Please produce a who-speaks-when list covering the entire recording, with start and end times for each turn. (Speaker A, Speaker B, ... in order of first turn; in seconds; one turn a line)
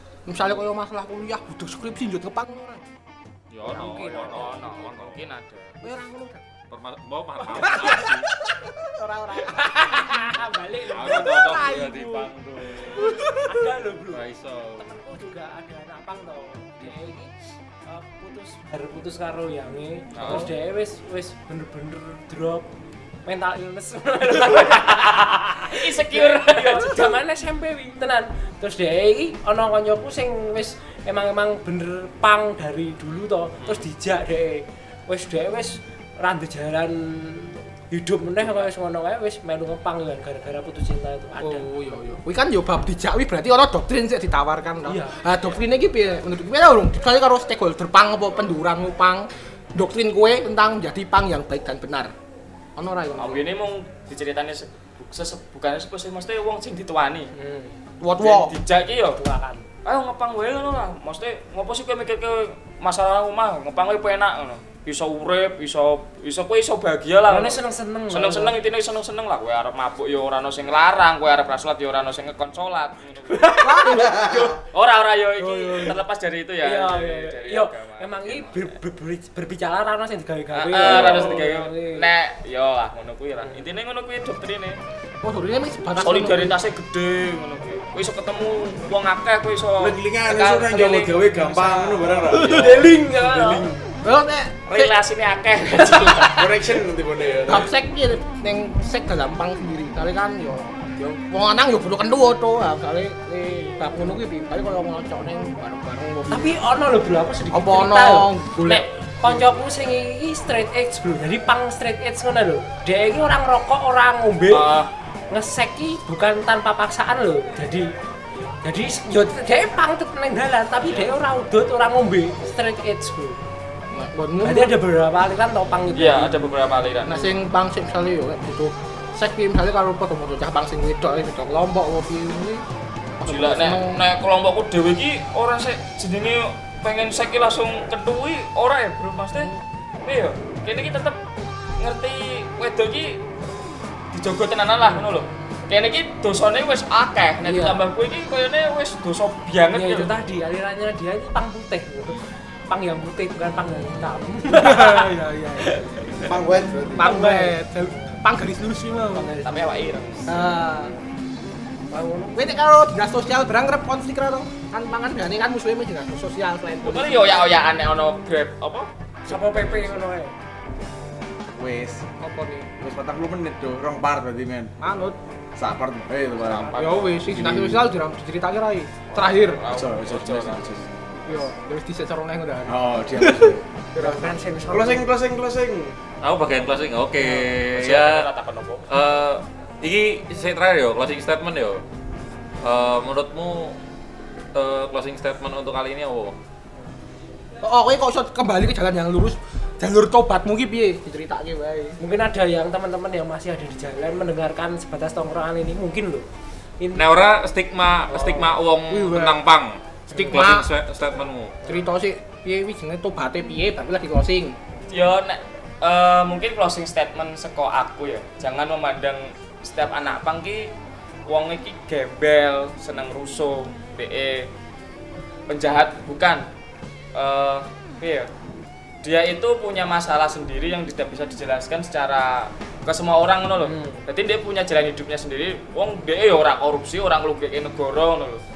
Speaker A: 0.3-2.8
Speaker B: 3.5-5.3
Speaker C: 3.6-4.7
Speaker D: 4.3-5.8
Speaker A: 5.8-6.4
Speaker B: 6.7-8.3
Speaker C: 7.4-8.1
Speaker A: 7.6-10.3
Speaker C: 9.4-12.1
Speaker B: 10.9-13.5
Speaker A: 11.1-12.3
Speaker A: 12.9-13.4
Speaker C: 13.0-14.2
Speaker B: 14.1-14.9
Speaker C: 14.8-17.3
Speaker B: 16.8-17.1
Speaker C: 17.9-22.7
Speaker D: 20.1-20.5
Speaker B: 20.2-20.5
Speaker C: 23.2-41.7
Speaker D: 24.8-27.2
Speaker D: 38.4-38.7
Speaker A: 41.4-52.1
Speaker C: 44.9-45.2
Speaker A: 52.8-53.5
Speaker D: 53.2-57.3
Speaker C: 57.3-57.8
Speaker A: 58.0-58.5
Speaker D: 58.2-59.2
Speaker C: 59.1-59.6
Speaker D: 59.8-73.9
Speaker C: 67.3-68.5
Speaker C: 73.3-74.6
Speaker A: 73.6-74.5
Speaker E: 73.9-74.5
Speaker D: 74.7-78.7
Speaker A: 75.4-76.0
Speaker C: 76.6-82.1
Speaker D: 80.5-84.8
Speaker A: 80.8-81.3
Speaker A: 85.2-86.6
Speaker D: 86.0-92.0
Speaker E: 89.8-93.7
Speaker A: 91.4-92.8
Speaker C: 92.3-93.7
Speaker A: 94.0-94.9
Speaker D: 94.7-96.5
Speaker E: 95.8-97.7
Speaker A: 97.5-106.5
Speaker C: 106.3-114.7
Speaker A: 107.5-109.4
Speaker D: 114.5-114.9
Speaker C: 115.3-117.9
Speaker C: 118.6-123.4
Speaker A: 123.9-124.7
Speaker C: 124.4-126.3
Speaker D: 125.9-127.3
Speaker A: 127.0-132.6
Speaker A: 133.2-134.0
Speaker D: 133.2-139.5
Speaker D: 140.0-141.2
Speaker D: 141.8-143.2
Speaker D: 144.1-150.1
Speaker C: 147.4-147.8
Speaker C: 149.7-156.3
Speaker A: 153.8-156.3
Speaker E: 156.2-157.1
Speaker A: 156.9-159.3
Speaker C: 156.9-158.2
Speaker C: 159.1-160.8
Speaker D: 159.4-160.2
Speaker A: 160.3-160.9
Speaker C: 161.9-162.6
Speaker A: 162.3-167.5
Speaker D: 166.8-169.9
Speaker C: 169.2-170.3
Speaker E: 171.5-172.1
Speaker A: 172.2-172.7
Speaker E: 172.8-174.7
Speaker A: 174.8-175.2
Speaker E: 175.6-177.8
Speaker D: 176.4-177.2
Speaker A: 176.7-179.6
Speaker D: 179.1-180.8
Speaker E: 179.7-181.2
Speaker A: 181.2-185.0
Speaker E: 182.7-183.6
Speaker C: 184.0-185.1
Speaker E: 184.7-186.0
Speaker B: 186.2-188.3
Speaker D: 187.7-188.8
Speaker B: 188.9-191.8
Speaker B: 192.6-193.8
Speaker B: 194.5-196.3
Speaker A: 197.6-202.0
Speaker C: 202.0-206.2
Speaker C: 206.8-207.1
Speaker B: 206.9-211.5
Speaker C: 208.1-208.6
Speaker A: 208.9-209.4
Speaker A: 210.1-210.7
Speaker A: 211.7-214.6
Speaker D: 214.9-220.7
Speaker D: 221.2-224.5
Speaker D: 225.5-226.4
Speaker D: 227.1-228.3
Speaker D: 229.0-238.4
Speaker C: 233.6-234.0